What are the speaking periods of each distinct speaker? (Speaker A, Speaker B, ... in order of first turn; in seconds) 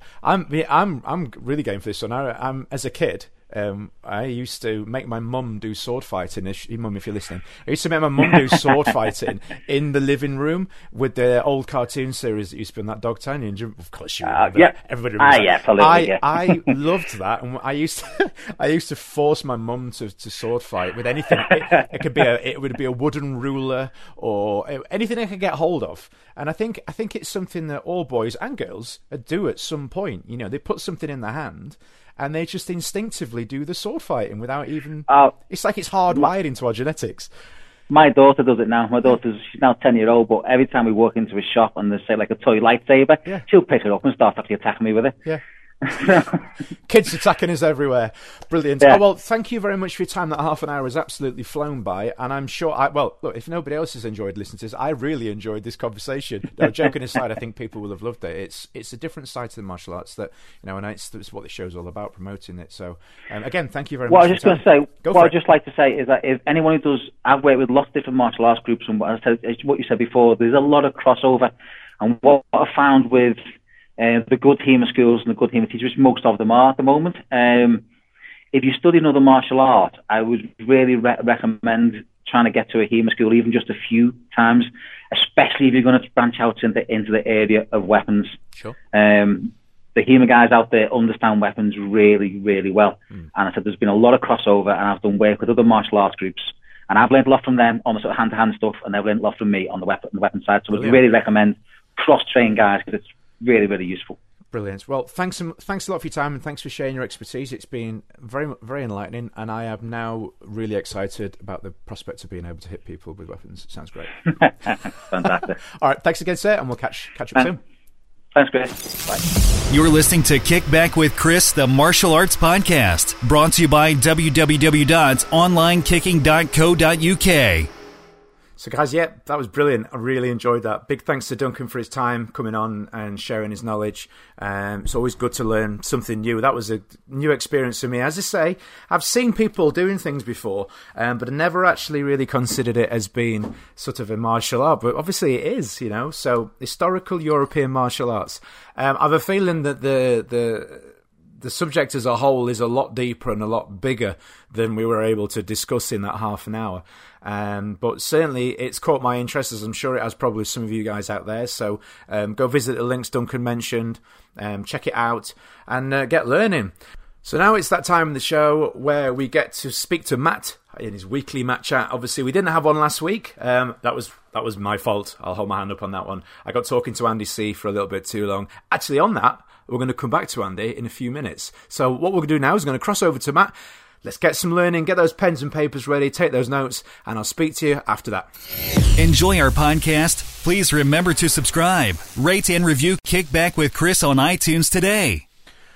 Speaker A: 0.2-37.3, 46.9-65.3, 100.7-101.0, 104.5-114.1, 115.7-117.6, 128.6-188.3
Speaker B: 14.2-16.7, 35.1-35.3, 37.9-45.2, 45.9-46.4, 64.1-73.4, 74.0-77.8, 78.5-88.4, 88.9-104.2, 114.3-115.6, 118.3-118.8
Speaker C: 119.7-127.7, 189.0-195.2